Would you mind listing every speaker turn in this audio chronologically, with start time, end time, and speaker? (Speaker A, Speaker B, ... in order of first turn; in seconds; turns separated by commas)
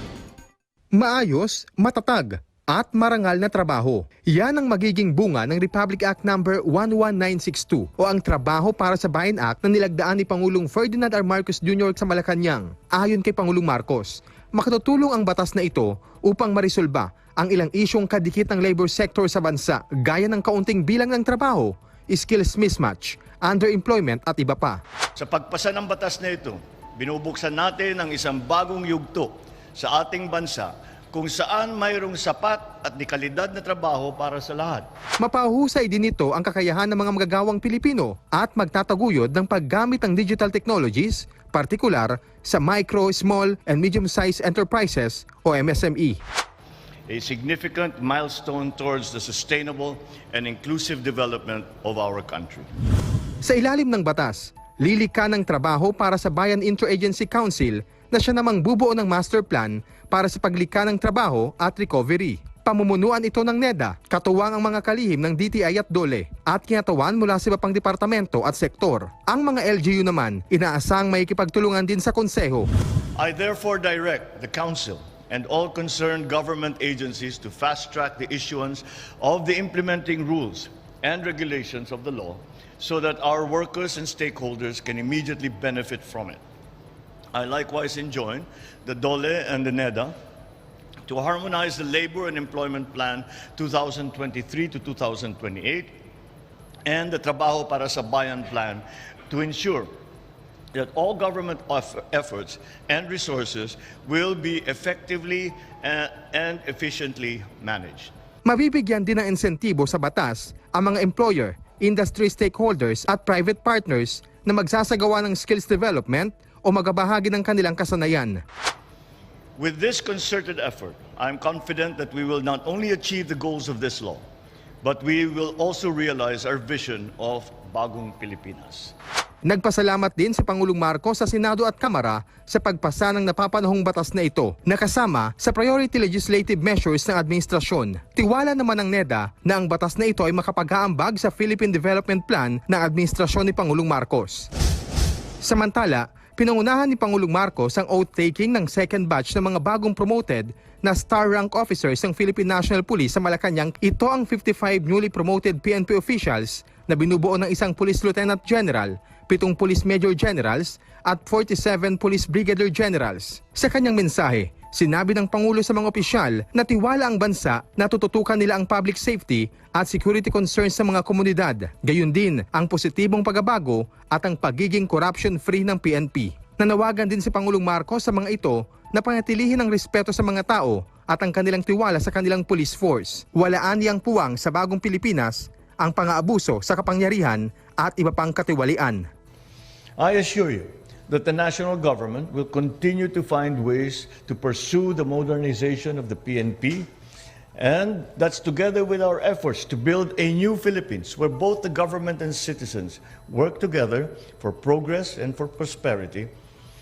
Speaker A: 0.9-24.8, Speaker B: 25.1-34.9, Speaker A: 35.2-46.2, Speaker B: 47.1-52.7, Speaker A: 53.4-72.7, Speaker B: 73.2-86.4, Speaker B: 87.3-90.1, Speaker B: 91.0-96.0, Speaker B: 96.8-99.9, Speaker B: 100.7-108.1, Speaker A: 108.4-118.4, Speaker B: 119.6-124.2, Speaker B: 124.8-128.9, Speaker A: 129.4-144.5, Speaker A: 145.4-189.1, Speaker B: 190.0-196.9, Speaker B: 197.6-206.3